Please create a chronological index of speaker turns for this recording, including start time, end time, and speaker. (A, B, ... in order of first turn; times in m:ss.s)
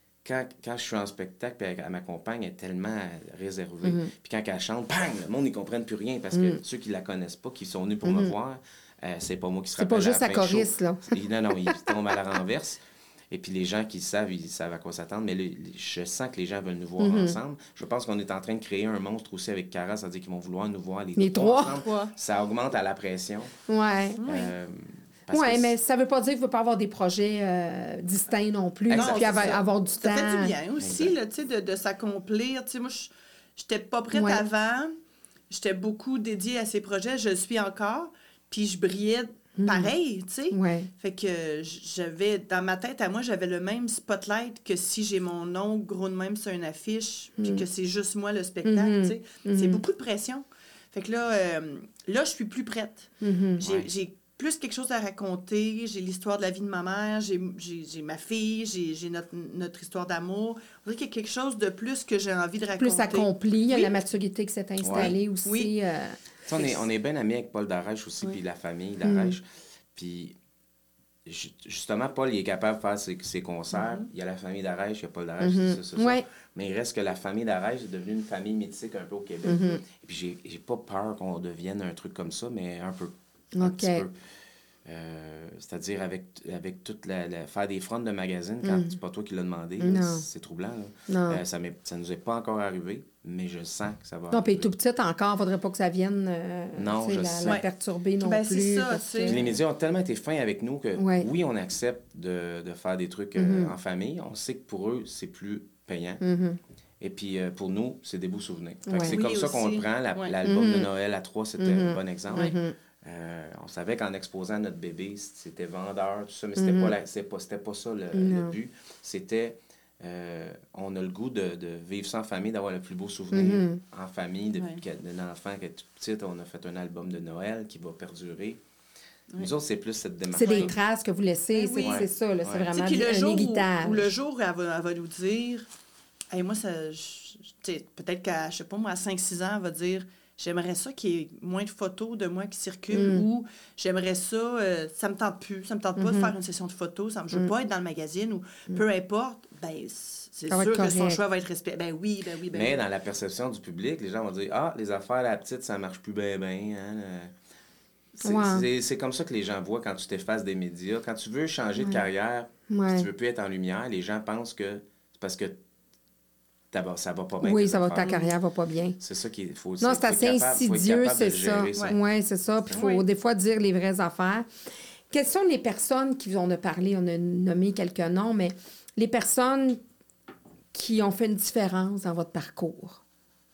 0:00.2-0:23.5 A
0:03.8-0:04.1 B
0:06.3-0:06.6 B
0:08.0-0:08.3 B
0:09.8-0:11.8 B
0:17.0-0:17.4 B
0:21.2-0:21.8 B
0:21.7-0:22.1 C
0:23.7-0:24.2 B
0:24.2-0:24.5 C
0:24.2-0:25.8 A
0:25.3-0:30.5 B
0:28.9-0:29.6 A
0:28.9-0:34.9 C
0:30.8-0:31.1 A
0:34.1-0:34.4 B
0:35.5-1:03.9 C
0:39.6-0:39.9 B
0:40.5-0:40.9 B
0:47.4-0:47.6 B
0:48.6-0:49.8 B
0:53.2-0:53.6 B
0:53.6-0:53.9 A
1:02.8-1:06.2 B
1:04.8-1:05.2 A
1:04.9-1:05.7 C
1:06.5-1:10.4 A
1:09.0-1:09.4 B
1:11.2-1:24.2 A
1:13.7-1:14.1 C
1:15.4-1:16.2 B
1:19.4-1:19.8 B
1:23.5-1:24.0 B
1:24.8-1:34.7 A
1:28.6-1:28.9 B
1:29.8-1:30.2 B
1:31.1-1:31.4 B
1:34.3-1:39.5 B
1:36.7-1:37.6 A
1:38.2-1:39.4 C
1:39.2-1:46.2 A
1:41.0-1:41.3 B
1:43.4-1:43.7 B
1:46.2-1:46.6 B
1:47.0-2:08.6 A
1:48.9-1:49.2 B
1:49.1-1:50.3 C
1:50.4-1:50.9 B
1:51.6-1:52.7 B
1:56.6-1:56.9 B
1:58.1-1:58.5 B
2:03.3-2:03.8 B
2:09.4-2:10.7 A
2:10.3-2:14.1 B
2:10.4-2:10.7 C
2:11.5-2:12.0 C
2:11.8-2:12.7 A
2:12.7-2:15.7 C
2:16.3-2:32.8 C
2:22.9-2:23.2 B
2:26.0-2:26.3 B
2:30.5-2:31.2 B
2:32.5-2:37.3 A
2:38.2-2:45.6 A
2:38.2-2:38.6 B
2:42.7-2:43.1 B
2:46.7-2:48.2 A
2:47.4-2:49.0 B
2:48.0-2:48.3 C
2:49.0-2:52.0 A
2:49.8-2:54.5 B
2:52.7-2:53.0 C
2:55.1-2:59.8 B
3:00.7-3:03.0 B